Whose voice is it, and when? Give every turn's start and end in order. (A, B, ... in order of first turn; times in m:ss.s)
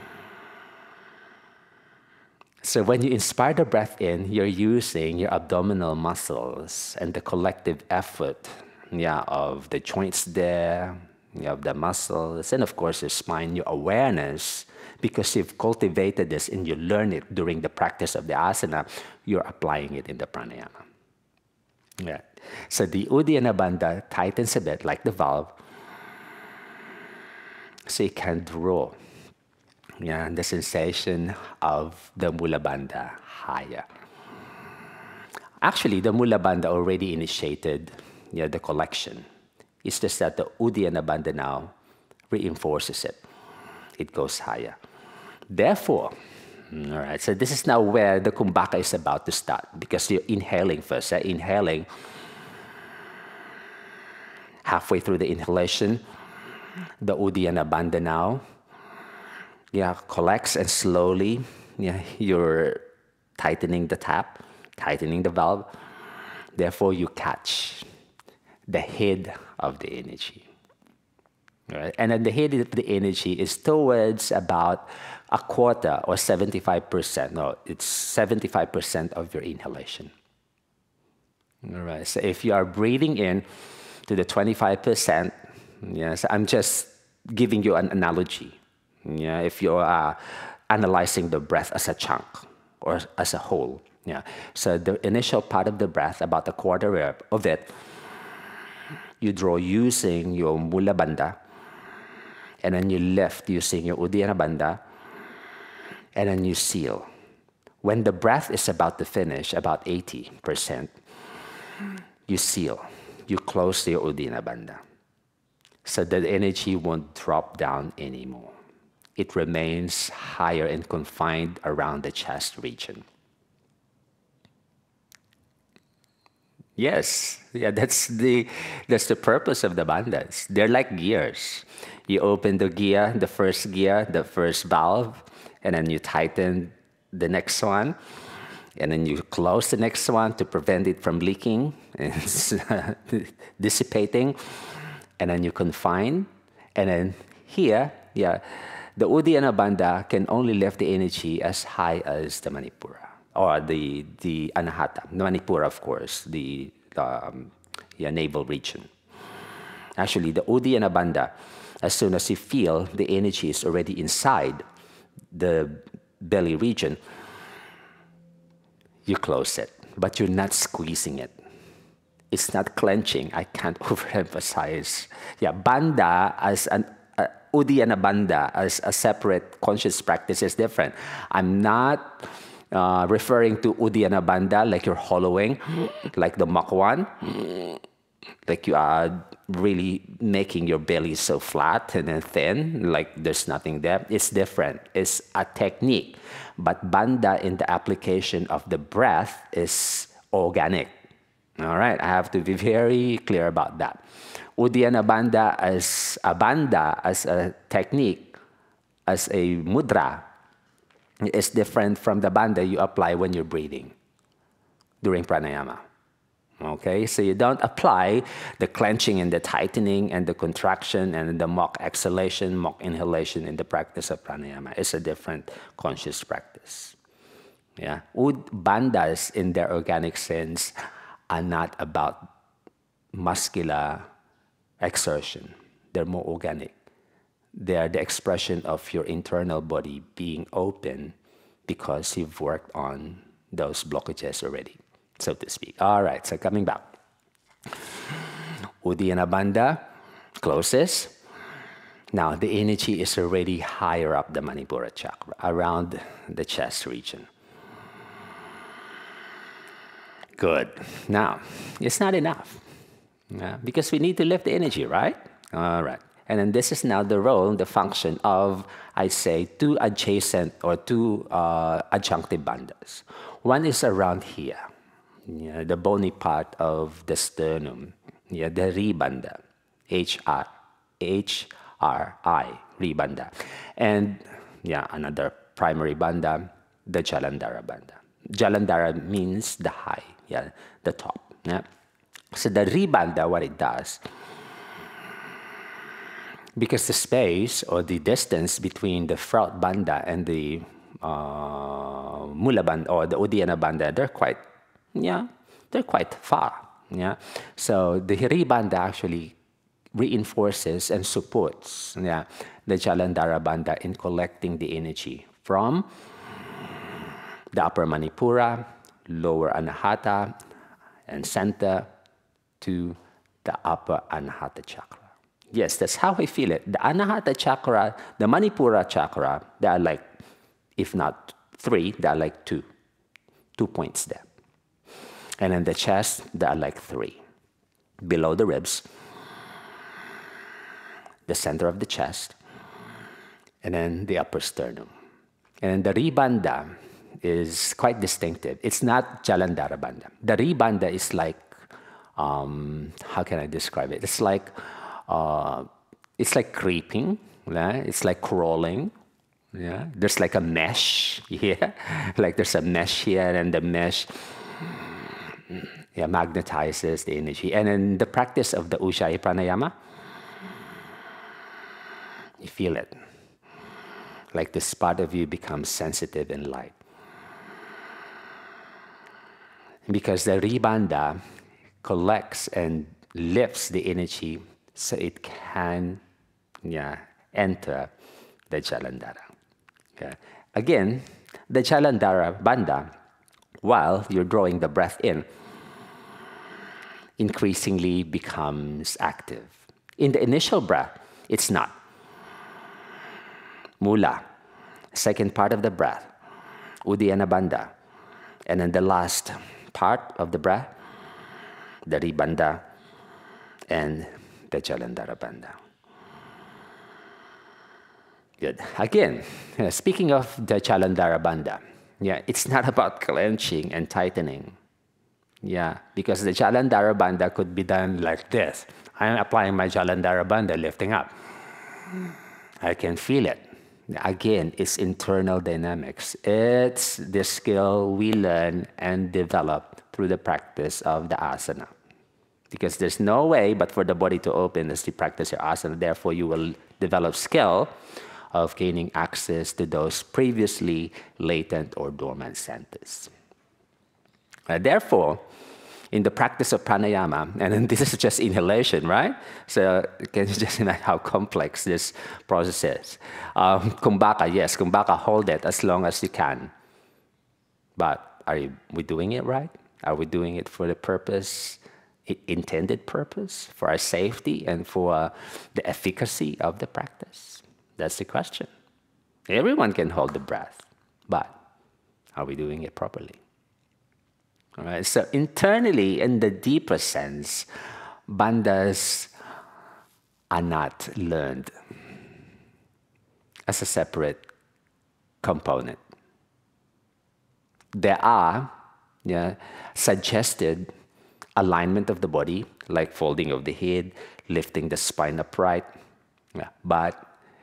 0:02.6-0:20.8 A
0:22.0-0:25.6 A
0:27.9-0:29.0 A
0:30.0-0:33.9 A
0:35.6-0:39.3 A
0:39.8-0:41.7 A
0:42.3-0:43.2 A
0:44.0-0:44.8 A
0:45.5-0:46.1 A
0:46.7-0:51.9 A
0:54.6-0:56.0 A
0:57.0-0:58.4 A
0:59.7-1:02.8 A
1:03.4-1:05.7 A
1:06.6-1:07.8 A
1:08.7-1:10.5 A
1:11.7-1:20.1 A
1:21.6-1:23.5 A
1:24.1-1:37.7 A
1:39.2-1:41.4 A
1:42.6-1:44.8 A
1:46.2-1:47.1 A
1:47.8-1:50.9 A
1:52.3-1:54.8 A
1:55.8-1:58.5 A
1:59.2-2:03.0 A
2:06.8-2:18.0 A
2:18.8-2:38.9 A
2:40.0-2:44.6 A
2:45.3-2:47.0 A
2:49.1-2:51.4 A
2:52.3-3:07.8 A
3:08.5-3:21.0 A
3:21.6-3:24.0 A
3:24.6-3:28.4 A
3:29.1-3:30.2 A
3:31.2-3:33.9 A
3:35.0-3:35.8 A
3:36.6-3:47.0 A
3:47.8-3:50.7 A
3:51.3-3:52.3 A
3:53.1-3:54.1 A
3:54.8-3:56.7 A
3:57.6-4:01.1 A
4:01.7-4:06.9 A
4:07.8-4:09.9 A
4:10.4-4:11.1 A
4:12.1-4:17.3 A
4:20.4-4:22.6 A
4:23.3-4:34.7 A
4:35.3-4:51.7 A
4:52.3-4:54.0 A
4:56.6-5:04.4 A
5:04.9-5:09.4 A
5:10.0-5:15.9 A
5:17.5-5:20.4 A
5:21.1-5:21.9 A
5:22.6-5:30.0 A
5:30.8-5:32.6 A
5:33.6-5:34.3 A
5:35.4-5:37.2 A
5:38.0-5:38.8 A
5:41.3-5:42.4 A
5:43.6-5:44.9 A
5:45.6-5:51.6 A
5:52.2-5:58.9 A
5:59.5-6:09.7 A
6:12.4-6:13.0 A
6:14.3-6:16.8 A
6:19.9-6:21.2 A
6:21.8-6:26.0 A
6:26.6-6:27.9 A
6:28.5-6:29.3 A
6:30.0-6:32.9 A
6:33.6-6:35.3 A
6:37.2-6:41.8 A
6:43.8-6:44.2 A
6:44.9-6:46.1 A
6:46.8-6:47.7 A
6:48.5-6:50.7 A
6:51.8-6:52.6 A
6:53.7-6:55.6 A
6:58.4-7:04.6 A
7:05.4-7:11.1 A
7:12.6-7:21.7 A
7:22.5-7:27.7 A
7:28.3-7:33.1 A
7:34.5-7:35.2 A
7:35.9-7:46.5 A
7:47.8-7:58.5 A
7:59.3-8:01.4 A
8:02.2-8:03.2 A
8:04.6-8:07.5 A
8:08.1-8:09.1 A
8:10.3-8:11.5 A
8:13.5-8:14.2 A
8:15.2-8:15.8 A
8:17.7-8:18.5 A
8:19.0-8:20.7 A
8:21.4-8:25.7 A
8:26.4-8:27.1 A